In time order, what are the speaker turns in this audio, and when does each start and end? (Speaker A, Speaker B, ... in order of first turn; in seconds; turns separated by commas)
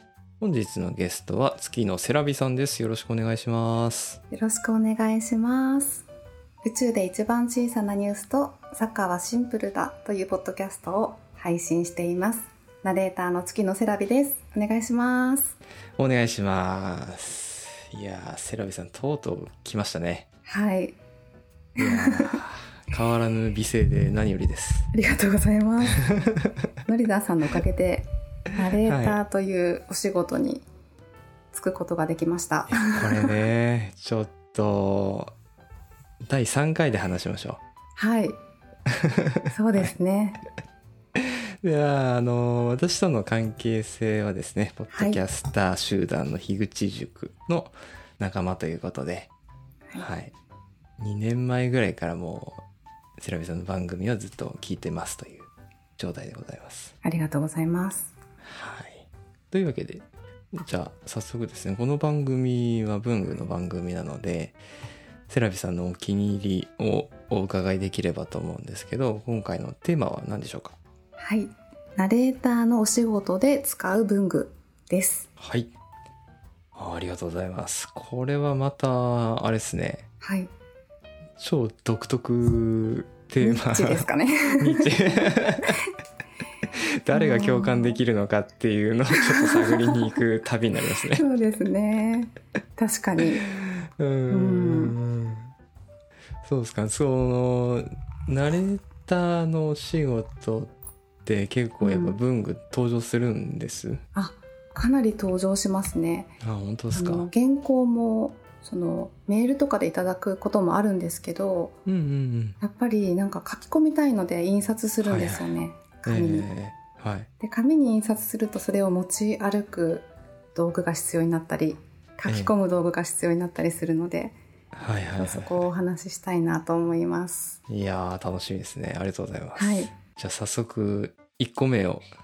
Speaker A: 0.4-4.2, Speaker B: 4.3-6.0, Speaker B: 6.6-15.6, Speaker A: 16.0-20.2, Speaker B: 20.4-20.9, Speaker B: 21.8-22.4, Speaker A: 21.8-24.9, Speaker B: 24.9-26.0, Speaker A: 26.1-26.5, Speaker B: 26.9-30.6, Speaker A: 28.8-29.2, Speaker B: 31.5-33.3, Speaker A: 32.7-35.3, Speaker A: 36.3-37.6, Speaker B: 38.0-38.4, Speaker A: 38.9-39.9, Speaker B: 39.5-40.4, Speaker A: 41.1-49.3, Speaker B: 44.9-45.2, Speaker A: 49.9-50.3, Speaker A: 51.0-52.6, Speaker A: 53.2-56.9, Speaker B: 57.0-58.1, Speaker A: 58.4-64.6, Speaker A: 65.3-70.8, Speaker B: 71.2-75.3, Speaker A: 75.4-75.7, Speaker A: 76.7-80.0, Speaker B: 80.2-80.5, Speaker A: 81.4-84.1, Speaker B: 83.4-85.8, Speaker A: 84.6-85.8, Speaker A: 86.8-91.2, Speaker B: 87.1-88.0, Speaker B: 89.2-90.0, Speaker B: 91.1-93.5, Speaker A: 94.0-95.5, Speaker B: 94.3-95.0, Speaker A: 96.4-100.7, Speaker A: 101.2-104.0, Speaker B: 101.8-102.2, Speaker B: 104.1-106.3, Speaker A: 106.4-107.3, Speaker B: 106.9-111.8, Speaker A: 111.8-112.6, Speaker B: 112.6-116.5, Speaker A: 115.0-115.5, Speaker A: 116.0-117.3, Speaker B: 117.4-124.3, Speaker A: 122.2-122.5, Speaker A: 124.7-125.7, Speaker B: 125.2-127.6, Speaker A: 127.7-132.1, Speaker B: 129.6-129.9